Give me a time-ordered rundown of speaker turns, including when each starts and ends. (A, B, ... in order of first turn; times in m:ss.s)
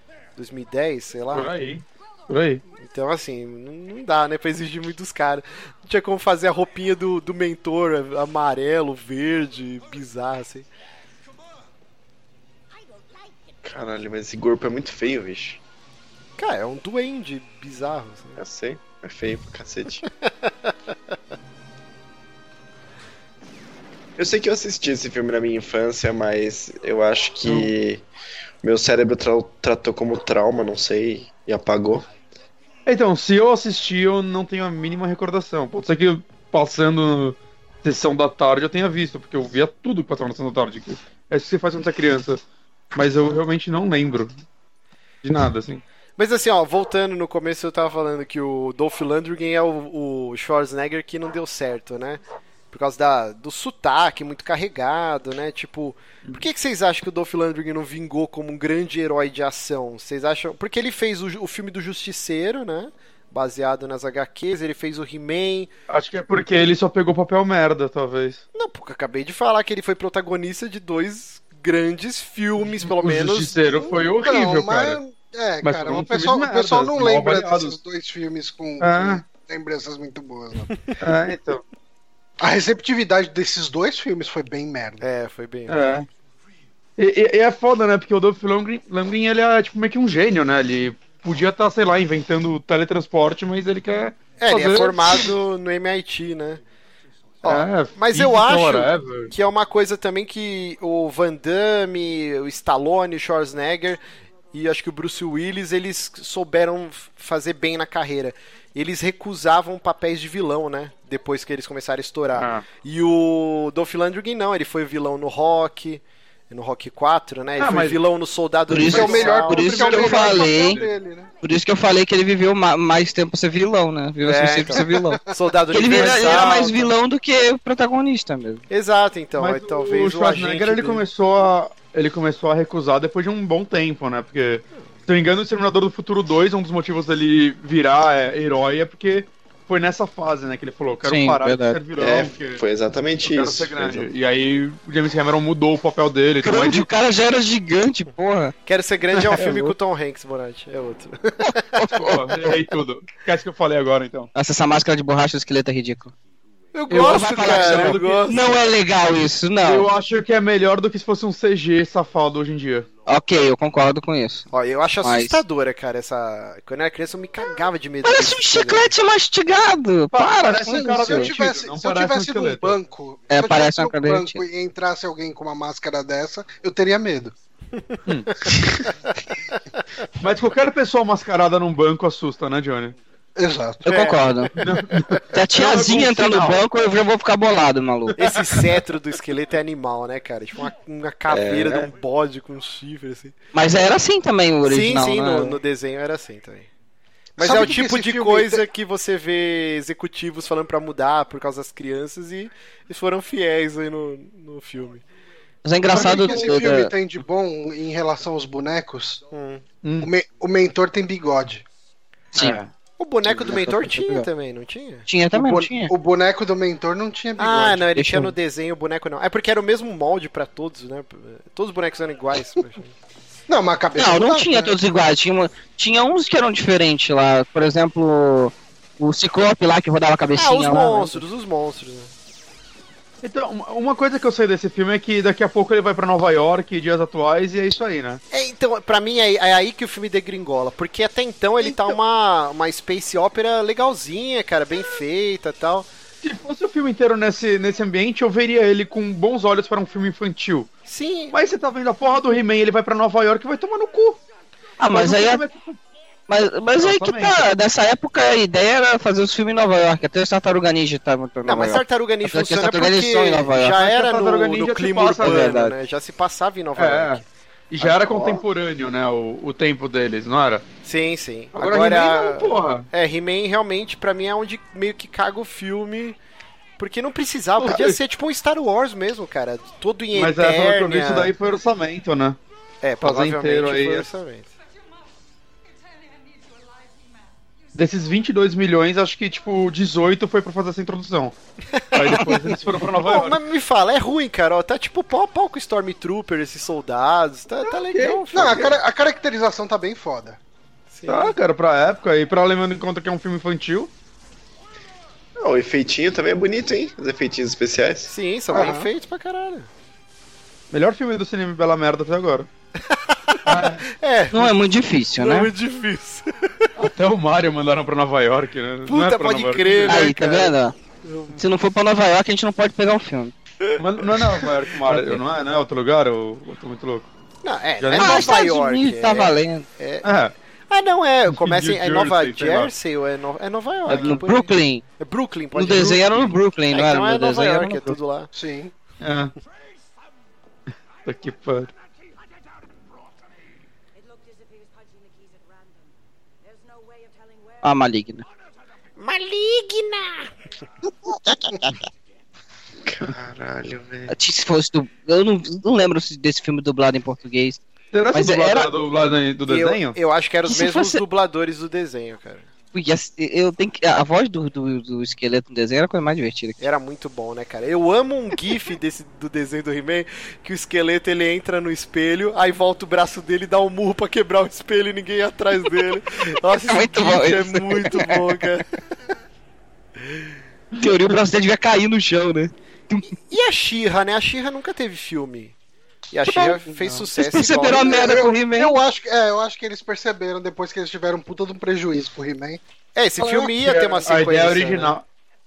0:00.4-0:01.5 A
0:01.3-0:02.6 B
0:02.8-0:10.7 A
0:12.7-0:13.7 C
0:13.6-0:15.6 D
0:16.4-0:18.4 A
0:18.4-0:20.0 D
0:20.2-0:21.0 A
0:24.2-0:28.1 D
0:27.4-0:27.7 B
0:28.6-0:32.1 D
0:32.9-0:44.4 B
0:45.2-0:45.8 B
0:46.2-1:05.7 A
1:05.9-1:08.4 B
1:08.5-1:14.0 A
1:12.6-1:15.0 B
1:14.2-1:20.7 E
1:15.6-1:17.8 B
1:18.8-1:19.2 B
1:21.0-1:21.6 B
1:22.4-1:25.1 E
1:25.0-1:25.8 A
1:25.7-1:26.1 B
1:27.0-1:35.3 B
1:34.4-1:36.6 A
1:37.4-1:59.8 A
1:37.4-1:39.3 B
1:52.4-1:52.6 B
1:57.6-1:58.0 B
1:58.7-2:00.8 F
1:58.9-2:00.8 B
1:58.9-2:01.3 E
2:01.4-2:08.6 F
2:04.2-2:06.9 A
2:04.7-2:05.2 E
2:05.9-2:06.3 B
2:08.7-2:11.0 A
2:09.4-2:22.6 B
2:21.0-2:21.8 F
2:22.0-2:24.1 D
2:23.2-2:26.9 B
2:26.4-2:28.5 F
2:28.6-2:32.1 A
2:29.2-2:29.7 F
2:31.5-2:32.2 F
2:31.9-2:34.3 B
2:34.4-2:36.1 F
2:36.7-2:38.6 A
2:36.9-2:38.3 B
2:37.0-2:39.9 F
2:39.6-2:42.9 B
2:43.1-2:44.5 F
2:44.5-2:48.9 A
2:45.0-2:45.4 F
2:48.0-2:51.3 F
2:50.1-2:52.8 B
2:50.7-2:57.4 E
2:53.3-2:54.4 F
2:57.9-2:58.6 A
2:58.1-2:58.4 B
3:00.2-3:03.0 B
3:03.4-3:03.9 E
3:03.8-3:04.5 F
3:03.8-3:05.1 A
3:04.6-3:06.6 B
3:05.3-3:08.1 F
3:08.1-3:08.8 B
3:08.1-3:13.3 A
3:11.3-3:11.9 D
3:13.5-3:15.6 F
3:14.6-3:16.7 A
3:17.4-3:25.0 A
3:17.4-3:18.6 E
3:25.6-3:26.9 F
3:25.9-3:29.2 E
3:26.0-3:26.6 A
3:29.3-3:29.6 A
3:29.8-3:30.1 B
3:30.0-3:31.6 E
3:32.4-3:32.6 F
3:32.4-3:32.7 B
3:33.0-3:35.1 A
3:33.5-3:34.3 F
3:35.1-3:35.9 F
3:35.3-3:37.9 E
3:37.4-3:43.0 A
3:38.0-3:38.3 F
3:43.5-3:44.8 E
3:44.0-3:51.2 F
3:50.3-3:52.1 A
3:53.2-3:58.2 B
3:58.3-4:05.9 A
4:01.6-4:02.0 B
4:06.2-4:10.7 B
4:10.9-4:11.4 A
4:11.3-4:14.2 B
4:14.8-4:15.4 F
4:14.8-4:15.8 B
4:16.3-4:23.8 F
4:16.8-4:17.4 B
4:21.5-4:27.2 A
4:23.7-4:25.5 B
4:25.2-4:25.7 F
4:26.8-4:30.6 B
4:27.8-4:28.4 D
4:30.8-4:36.2 A
4:31.5-4:32.9 B
4:36.8-4:41.3 A
4:37.6-4:38.0 B
4:40.1-4:42.4 B
4:42.8-4:44.5 A
4:43.0-4:44.1 B
4:47.8-4:51.4 B
4:51.7-4:52.4 A
4:51.9-4:53.4 B
4:52.9-4:58.8 A
4:57.9-4:58.2 B
4:58.3-5:00.4 E
5:00.9-5:01.4 A
5:01.1-5:03.9 B
5:05.4-5:08.1 D
5:08.1-5:09.7 A
5:08.5-5:08.9 E
5:10.7-5:12.5 B
5:12.8-5:14.5 A
5:13.5-5:13.9 B
5:14.3-5:15.5 F
5:15.2-5:16.7 A
5:16.8-5:20.1 B
5:18.9-5:21.4 A
5:19.9-5:20.8 F
5:21.3-5:23.3 F
5:23.6-5:24.5 A
5:23.8-5:27.1 B
5:24.9-5:25.2 F
5:27.4-5:30.1 A
5:27.8-5:28.4 B
5:28.0-5:29.7 F
5:30.0-5:30.3 B
5:30.7-5:38.3 A
5:31.3-5:32.7 B
5:33.9-5:34.2 B
5:33.9-5:34.8 F
5:35.5-5:38.0 F
5:38.4-5:38.7 E
5:39.0-5:39.3 B
5:41.0-5:41.7 B
5:44.0-5:45.9 C
5:46.5-5:47.6 C
5:47.6-5:48.3 F
5:49.0-5:50.4 A
5:51.3-5:51.8 F
5:52.8-5:54.1 D
5:54.1-5:57.6 F
5:57.9-6:00.0 B
5:58.1-5:58.7 F
5:59.5-6:02.5 A
6:00.4-6:01.0 F
6:02.7-6:06.6 F
6:06.6-6:18.7 A
6:16.6-6:18.4 F
6:20.0-6:20.3 A
6:20.8-6:21.1 B
6:20.8-6:23.1 F
6:23.1-6:25.6 A
6:26.1-6:28.2 A
6:27.1-6:28.8 F
6:27.8-6:32.6 E
6:32.9-6:34.9 A
6:33.2-6:35.1 B